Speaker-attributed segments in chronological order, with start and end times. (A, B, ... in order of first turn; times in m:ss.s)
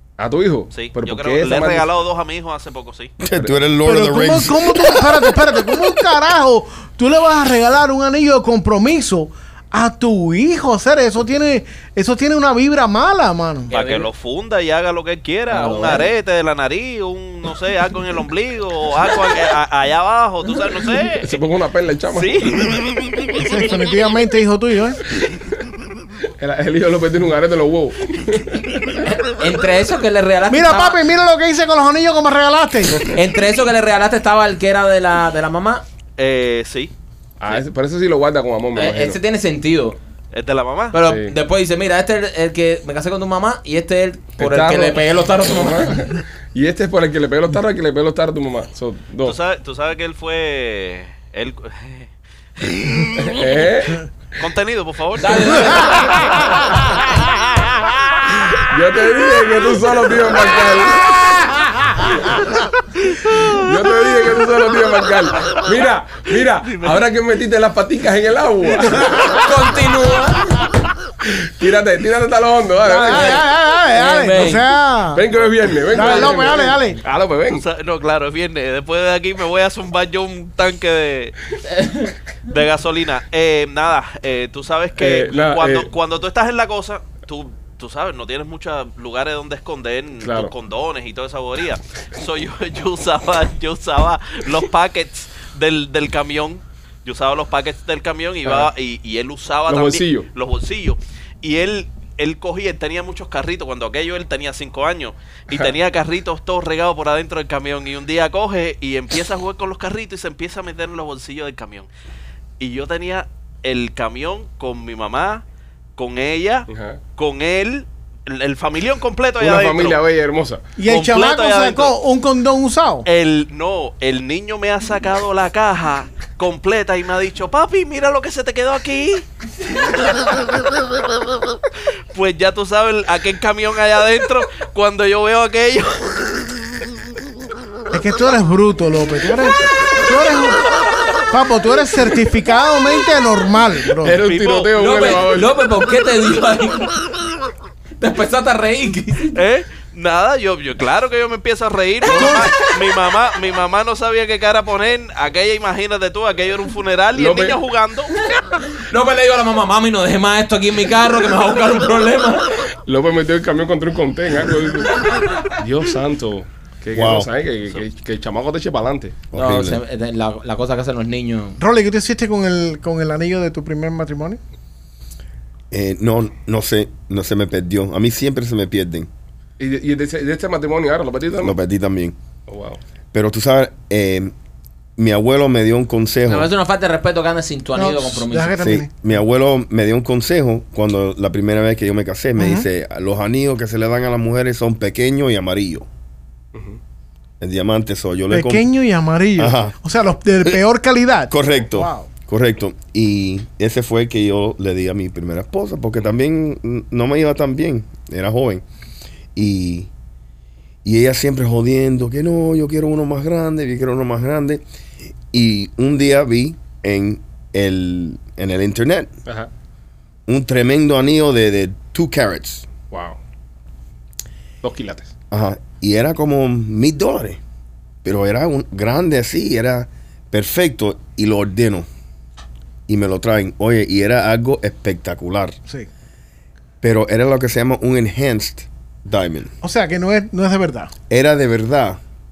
0:00.2-0:01.9 A
0:00.7-0:03.1 B
0:03.2-0:05.3 C
0:03.3-0:03.6 A
0:03.8-0:13.7 D
0:13.7-0:14.1 E
0:13.7-0:21.3 B
0:15.5-0:16.1 E
0:21.1-0:22.5 A
0:22.1-0:23.3 B
0:23.4-0:25.0 D
0:26.4-0:29.0 A
0:29.0-0:31.0 E
0:30.5-0:33.1 D
0:33.0-0:35.8 E
0:36.2-0:36.9 B
0:37.4-0:39.2 A
0:38.8-0:40.0 E
0:40.3-0:41.0 B
0:40.9-0:46.0 E
0:41.0-0:41.4 A
0:44.4-0:49.4 A
0:49.2-0:53.7 B
0:53.2-0:54.0 A
0:54.4-0:56.4 B
0:55.2-0:56.2 E
0:58.5-1:01.4 A
1:03.4-1:09.4 A
1:09.3-1:10.5 E
1:11.2-1:13.4 A
1:12.8-1:15.2 D
1:13.1-1:14.7 E
1:15.1-1:17.6 A
1:15.9-1:17.0 D
1:17.5-1:21.6 B
1:21.7-1:22.1 E
1:22.4-1:51.9 B
1:25.0-1:25.9 A
1:30.2-1:30.5 A
1:38.4-1:38.7 A
1:39.7-1:40.3 A
1:52.6-1:55.4 B
1:56.0-2:00.0 B
1:56.7-1:57.0 A
1:59.4-2:00.6 A
2:00.8-2:03.1 D
2:00.8-2:01.9 B
2:03.0-2:09.3 B
2:10.0-2:10.4 B
2:12.1-2:16.8 B
2:17.9-2:20.7 D
2:21.3-2:24.2 D
2:24.0-2:25.5 A
2:24.1-2:24.7 B
2:24.8-2:26.9 E
2:28.0-2:29.4 E
2:29.3-2:38.2 B
2:32.1-2:32.5 A
2:37.2-2:37.6 A
2:38.4-2:42.6 E
2:42.8-2:49.3 A
2:47.0-2:47.3 C
2:49.3-2:49.8 C
2:49.3-2:51.6 E
2:51.6-2:54.4 D
2:55.7-2:59.1 C
2:59.6-3:01.6 A
3:01.4-3:02.2 C
3:02.5-3:02.8 A
3:03.1-3:04.3 C
3:05.0-3:06.5 C
3:06.3-3:08.7 E
3:07.8-3:08.9 D
3:08.6-3:15.9 C
3:12.4-3:12.7 D
3:16.5-3:16.8 A
3:17.4-3:18.7 C
3:18.3-3:22.1 D
3:19.4-3:19.8 C
3:21.3-3:28.6 C
3:29.4-3:29.9 C
3:30.8-3:34.6 C
3:35.3-3:39.1 C
3:40.3-3:42.7 C
3:42.9-3:43.2 A
3:44.6-3:45.1 A
3:45.3-3:47.4 C
3:48.0-3:51.9 C
3:52.9-3:55.6 C
3:56.8-3:59.5 C
3:59.6-4:00.9 D
4:01.1-4:02.0 C